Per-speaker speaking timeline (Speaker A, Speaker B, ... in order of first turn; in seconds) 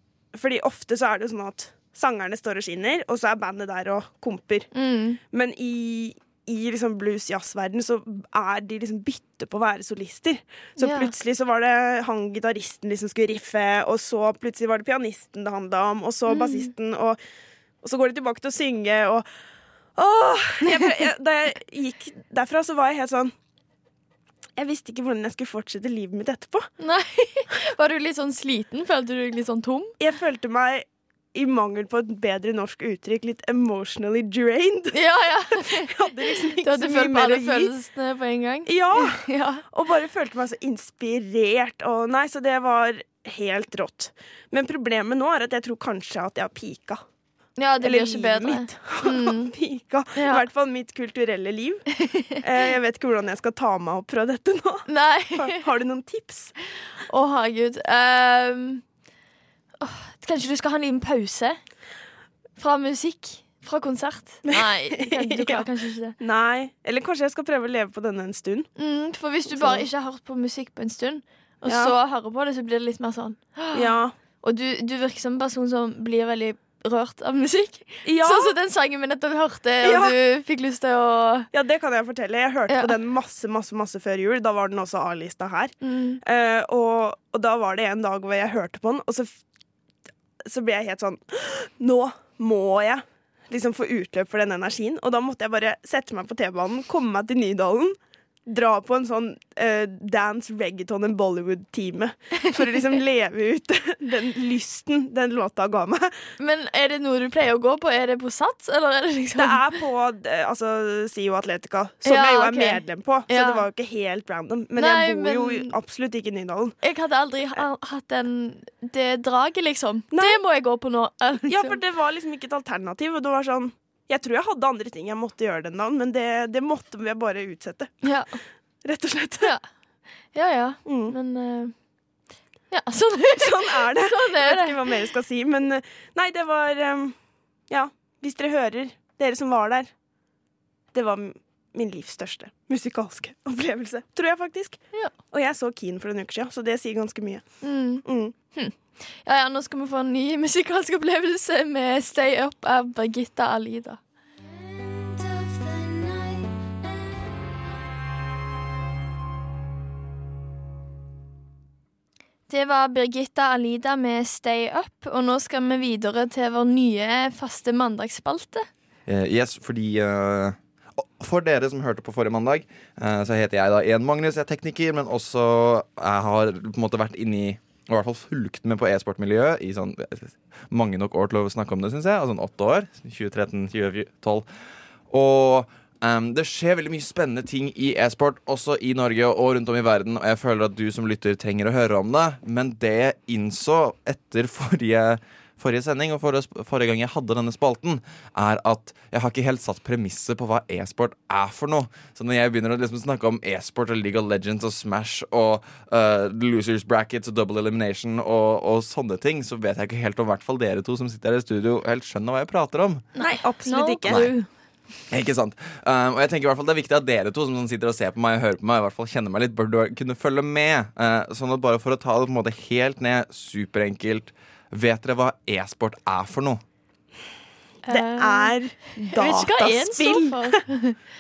Speaker A: 0.3-4.7, 5.3-17.2, 17.8-19.3, 20.0-23.3, 24.6-26.7, 30.0-35.0, 35.5-37.7, 38.7-47.0, 47.8-51.9, 52.4-56.5, 64.5-65.7, 66.2-68.7, 69.5-69.8, 71.7-71.9, 73.7-74.2, 78.0-78.5, 79.8-80.2, 81.5-89.3, 90.5-106.1, 109.4-116.8, 120.1-120.4, 121.5-128.1, 128.8-129.5, 130.9-131.2, 133.4-137.2, 137.7-139.9, 140.9-147.5, 148.0-148.3, 213.2-214.3, 227.9-230.6
Speaker B: 4.7-5.2, 10.8-11.1, 16.3-16.7, 20.7-21.1, 26.8-29.9, 34.9-35.9, 36.6-39.6, 47.6-49.5, 50.2-50.4, 52.0-52.4, 54.9-55.6, 57.1-58.8, 59.8-61.6, 62.6-66.2, 68.8-73.9, 74.4-81.5, 85.8-86.2, 106.4-109.6, 112.1-113.7, 114.8-115.7, 116.8-121.8, 128.0-128.4, 130.3-131.7, 132.7-134.8, 147.6-154.0, 155.0-156.5, 162.5-168.7, 213.2-214.5, 227.9-228.5, 229.1-231.0
Speaker C: 169.1-184.4, 185.1-213.0, 215.1-226.6